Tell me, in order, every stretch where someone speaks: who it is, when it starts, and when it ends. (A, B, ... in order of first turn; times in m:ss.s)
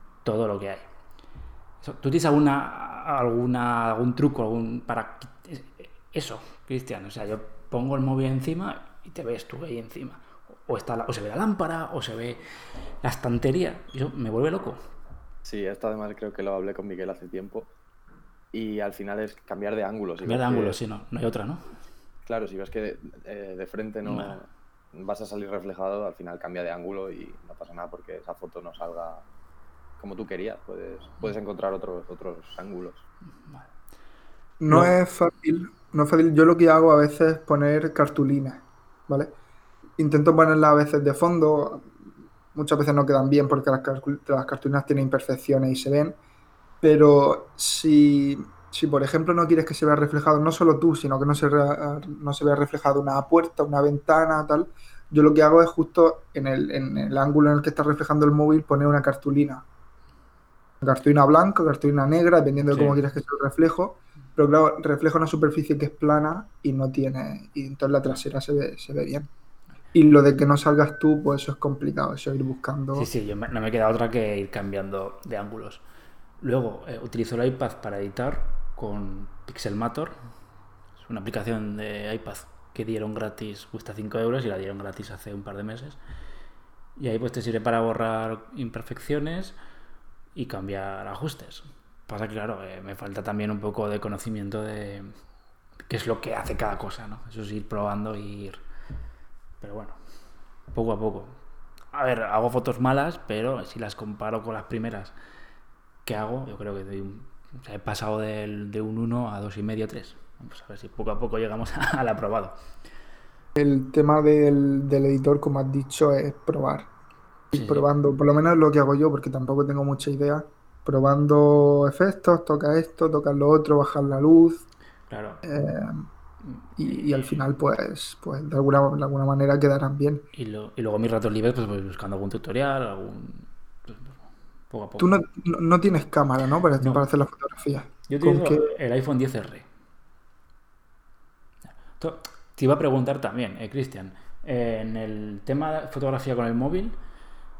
0:00.2-0:00.8 A
0:01.8-0:12.4 A
0:13.0-0:14.8 A
0:15.4-0:17.7 B
0:18.5-0:20.8 B
0:20.2-0:21.7 A
0:22.2-0:29.2 B
0:24.0-0:24.4 A
0:30.0-0:33.0 B
0:34.6-0:39.3 C
0:40.0-0:41.9 C
0:42.5-0:46.2 C
0:46.8-0:59.6 C
1:00.8-1:09.3 C
1:02.7-1:03.0 A
1:09.9-1:13.1 C
1:13.0-1:15.8 A
1:16.4-1:20.2 A
1:21.0-1:26.0 A
1:27.0-1:29.6 A
1:30.3-1:35.1 A
1:35.9-1:38.6 A
1:39.6-1:40.0 A
1:40.7-1:41.4 A
1:41.9-1:45.1 A
1:46.0-1:52.6 A
1:53.5-1:56.9 C
1:57.5-2:04.6 C
1:57.5-1:57.9 A
2:05.1-2:05.4 A
2:05.4-2:06.1 C
2:06.8-2:10.3 C
2:06.9-2:07.3 A
2:10.3-2:14.2 A
2:14.7-2:15.2 A
2:15.0-2:18.7 C
2:16.8-2:17.0 A
2:18.1-2:19.7 A
2:21.8-2:27.0 A